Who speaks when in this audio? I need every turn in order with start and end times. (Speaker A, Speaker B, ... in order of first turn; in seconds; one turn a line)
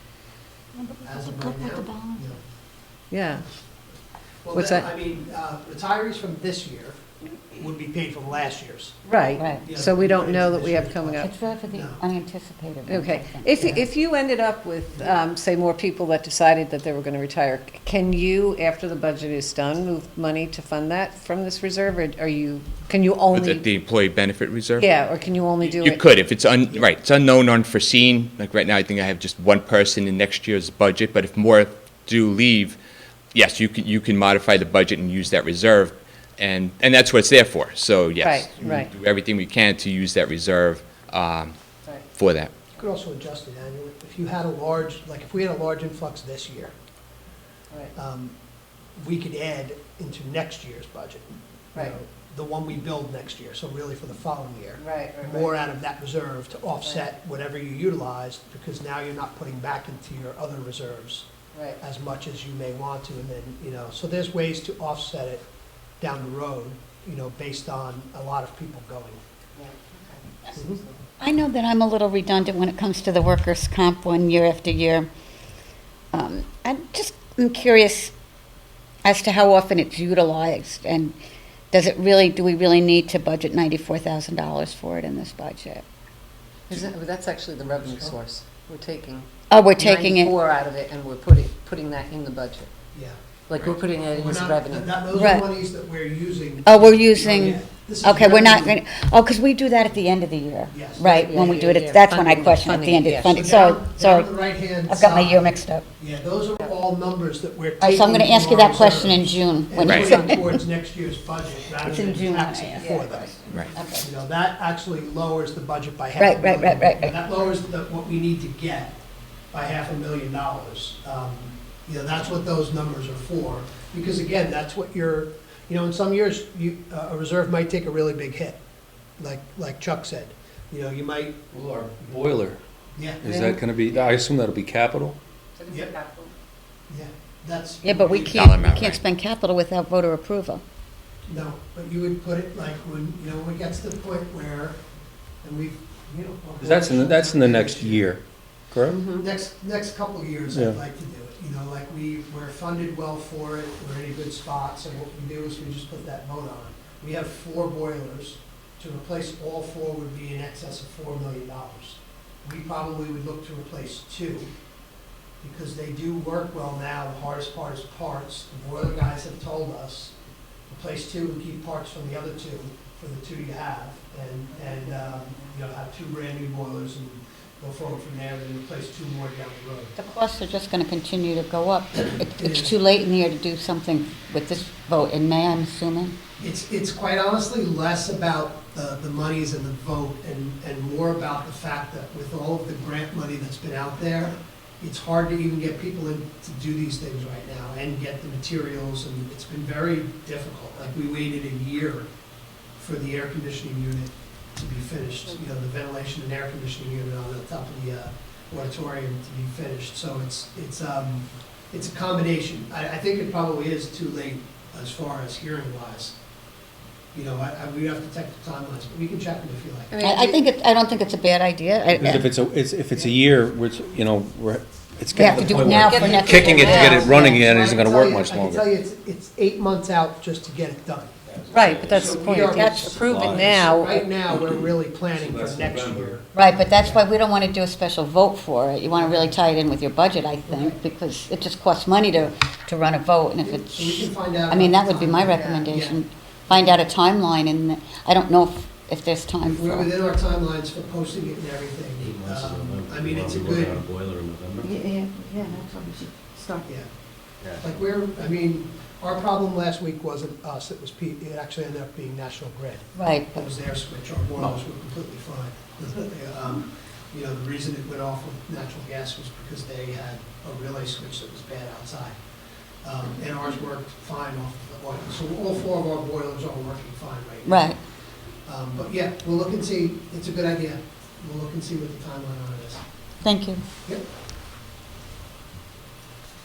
Speaker A: 0.8-2.4
Speaker B: 1.0-2.4
Speaker C: 3.1-3.5
Speaker B: 4.4-9.1
Speaker C: 4.5-4.9
Speaker C: 9.0-11.3
Speaker A: 9.4-9.7
Speaker B: 9.6-12.0
Speaker A: 11.2-13.6
Speaker C: 12.9-23.6
Speaker B: 13.6-13.8
Speaker D: 23.3-24.9
Speaker C: 24.8-26.0
Speaker D: 25.6-32.8
Speaker D: 33.3-41.5
Speaker C: 38.2-38.9
Speaker D: 42.1-42.5
Speaker B: 42.8-46.7
Speaker B: 47.9-48.4
Speaker B: 49.0-61.3
Speaker C: 54.8-55.6
Speaker C: 61.5-61.8
Speaker B: 61.8-65.4
Speaker B: 66.0-69.2
Speaker C: 69.5-71.0
Speaker A: 71.2-75.1
Speaker A: 76.1-78.1
Speaker A: 79.0-81.2
Speaker A: 81.7-85.8
Speaker C: 86.7-92.7
Speaker B: 87.8-88.2
Speaker A: 89.5-90.3
Speaker C: 93.5-95.0
Speaker B: 94.1-98.8
Speaker A: 95.1-95.5
Speaker A: 96.6-104.3
Speaker B: 100.7-101.6
Speaker C: 101.0-103.4
Speaker B: 103.3-113.3
Speaker A: 104.8-105.8
Speaker A: 107.8-110.6
Speaker D: 109.8-110.3
Speaker A: 111.8-114.1
Speaker C: 112.8-113.2
Speaker B: 113.9-119.0
Speaker A: 116.2-117.2
Speaker B: 119.5-128.6
Speaker B: 129.2-131.4
Speaker E: 131.5-132.6
Speaker B: 132.9-133.4
Speaker E: 133.2-135.2
Speaker C: 135.6-136.3
Speaker B: 136.9-138.9
Speaker A: 137.8-140.6
Speaker D: 138.3-139.0
Speaker B: 141.3-144.8
Speaker B: 145.4-148.2
Speaker E: 146.6-149.0
Speaker C: 148.9-149.3
Speaker B: 149.1-164.5
Speaker E: 150.5-150.8
Speaker B: 165.4-170.1
Speaker B: 170.7-179.9
Speaker A: 179.9-186.2
Speaker B: 182.0-182.7
Speaker B: 186.4-202.1
Speaker B: 202.8-216.1
Speaker B: 217.1-219.9
Speaker C: 219.9-220.4
Speaker A: 220.0-222.3
Speaker E: 221.9-228.7
Speaker B: 222.9-223.2
Speaker A: 225.1-227.4
Speaker C: 225.6-227.3
Speaker B: 226.1-231.1
Speaker F: 231.4-233.8
Speaker C: 231.5-234.1
Speaker B: 231.7-237.0
Speaker A: 232.4-233.5
Speaker E: 235.1-236.2
Speaker A: 236.3-249.9
Speaker B: 238.9-239.3
Speaker B: 240.5-240.8
Speaker B: 243.4-246.8
Speaker C: 245.2-245.7
Speaker B: 249.4-253.9
Speaker F: 252.0-254.7
Speaker A: 254.6-256.7
Speaker B: 256.6-256.9
Speaker F: 257.4-257.7
Speaker B: 257.6-272.2
Speaker A: 262.9-263.5
Speaker B: 272.8-277.8
Speaker A: 277.4-277.8
Speaker B: 278.4-282.8
Speaker A: 283.2-283.6